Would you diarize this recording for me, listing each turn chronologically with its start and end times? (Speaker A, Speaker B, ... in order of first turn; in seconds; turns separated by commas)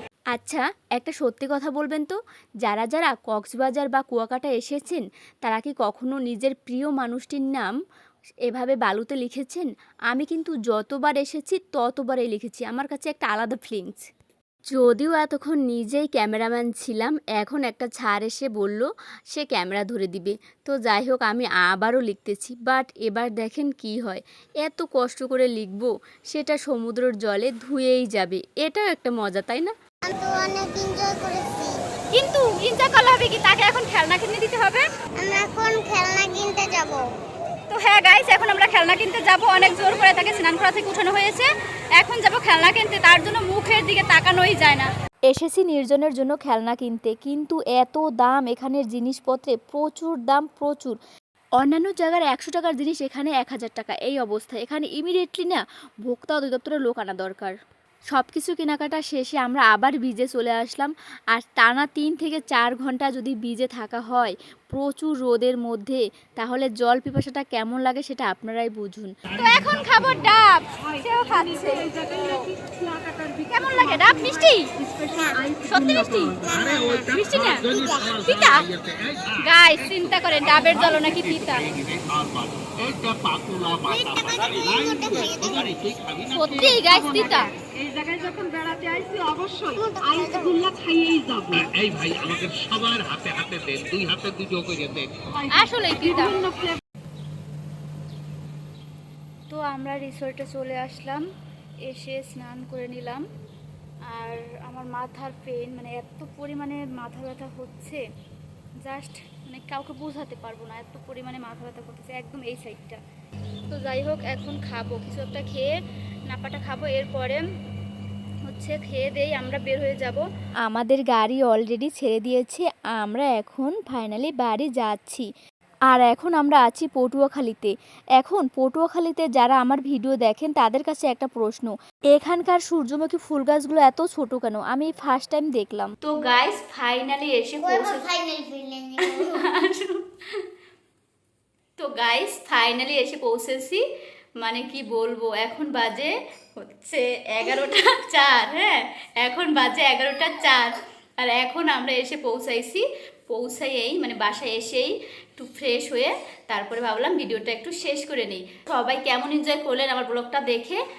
Speaker A: 0.3-7.7, Speaker A: 8.5-14.0, Speaker A: 14.7-29.7, Speaker B: 30.0-31.8, Speaker C: 32.1-34.9, Speaker B: 35.2-37.0, Speaker C: 37.7-44.9, Speaker A: 45.3-51.0, Speaker A: 51.6-57.5, Speaker A: 58.1-69.1, Speaker C: 69.3-72.5, Speaker D: 69.4-70.1, Speaker C: 73.3-74.7, Speaker C: 75.6-76.4, Speaker D: 76.1-86.9, Speaker B: 76.4-77.0, Speaker C: 77.1-78.6, Speaker C: 79.4-81.6, Speaker B: 83.7-85.8, Speaker C: 86.3-87.5, Speaker E: 87.8-89.6, Speaker B: 89.7-90.9, Speaker E: 90.8-91.4, Speaker D: 91.5-95.2, Speaker C: 95.5-96.4, Speaker C: 99.5-101.2, Speaker C: 101.8-103.2, Speaker C: 104.1-108.0, Speaker C: 108.8-113.0, Speaker C: 113.7-115.7, Speaker C: 116.3-117.4, Speaker C: 118.4-120.2, Speaker A: 120.7-125.2, Speaker A: 125.9-135.9, Speaker C: 136.0-138.0, Speaker A: 137.3-137.8, Speaker B: 137.6-139.4, Speaker C: 141.8-143.8, Speaker C: 144.4-146.1, Speaker C: 146.7-148.6, Speaker A: 147.4-147.8, Speaker A: 149.3-150.7, Speaker C: 149.6-150.3, Speaker C: 151.2-152.8, Speaker A: 151.8-152.2, Speaker C: 153.3-154.5, Speaker A: 153.8-154.9, Speaker C: 155.4-160.7, Speaker A: 155.5-156.0, Speaker A: 156.7-158.4, Speaker A: 158.9-160.6